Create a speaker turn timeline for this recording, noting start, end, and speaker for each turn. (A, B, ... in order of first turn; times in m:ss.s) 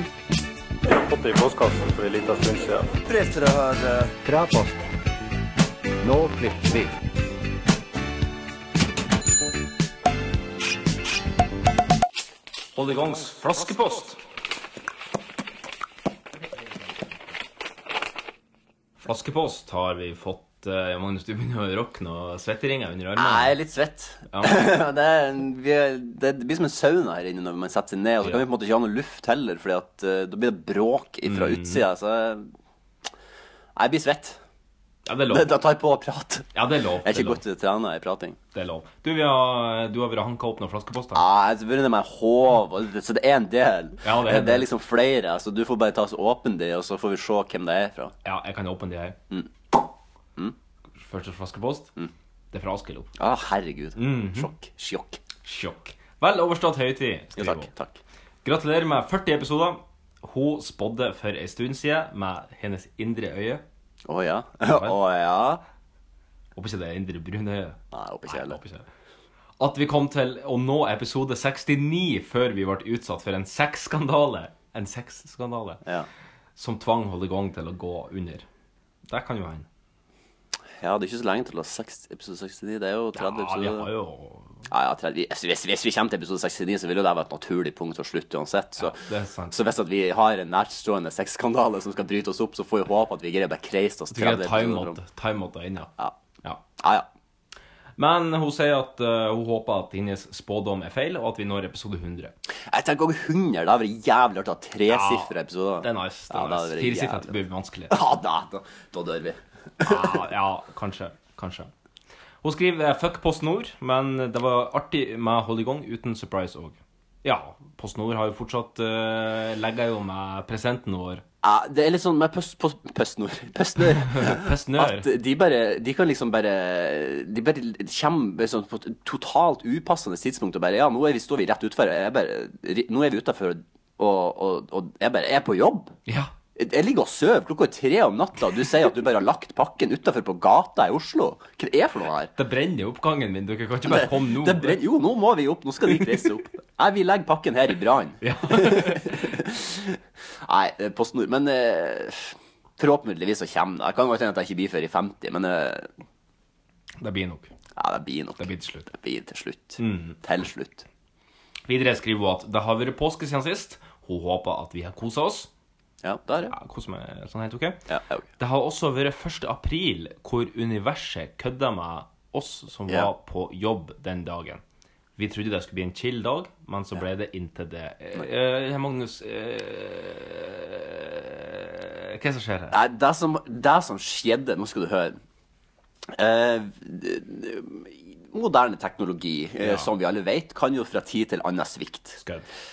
0:00.9-0:02.9 A
0:03.1-0:04.1 B
0:12.8-0:14.2 C
0:19.0-0:23.5 C
0:23.2-0:32.5 B
0:24.3-0:24.7 C
0:31.2-0:31.8 C
0:33.8-0:34.4 B
0:35.1-0:35.6 C
0:35.3-0:36.5 B
0:36.5-0:37.4 C
0:37.0-0:38.4 B
0:38.5-0:41.2 C
0:41.1-0:48.1 B
0:44.0-0:44.7 C
0:48.2-0:49.2 C
0:51.0-0:51.9 C
0:52.5-0:53.1 C
0:53.2-0:55.2 B
0:54.0-0:54.5 C
0:55.4-0:57.7 C
0:57.4-0:58.0 B
0:58.4-1:03.6 C
1:04.1-1:05.6 B
1:04.7-1:05.0 C
1:06.6-1:08.9 C
1:07.9-1:08.6 B
1:09.6-1:15.8 C
1:16.6-1:18.5 C
1:19.1-1:19.7 C
1:20.8-1:23.9 B
1:23.1-1:24.6 C
1:24.7-1:29.0 B
1:28.8-1:29.6 C
1:29.5-1:35.0 B
1:34.1-1:35.9 C
1:36.8-1:37.1 B
1:38.0-1:42.3 C
1:42.7-1:47.4 B
1:44.9-1:48.0 C
1:47.9-1:50.2 B
1:49.8-1:51.7 C
1:52.4-2:01.2 C
2:01.4-2:16.0 B
2:04.0-2:05.1 C
2:16.1-2:16.3 C
2:16.6-2:22.3 B
2:22.4-2:24.8 C
2:23.9-2:35.9 B
2:28.2-2:29.3 C
2:37.0-2:37.5 C
2:37.8-2:40.9 B
2:38.4-2:38.9 C
2:39.8-2:40.2 C
2:41.7-2:45.5 C
2:46.0-2:46.6 B
2:46.5-2:47.8 C
2:47.9-2:48.3 B
2:48.4-2:54.6 C
2:55.2-3:02.8 C
3:02.7-3:05.2 B
3:06.1-3:12.2 B
3:09.6-3:09.9 C
3:12.2-3:12.5 C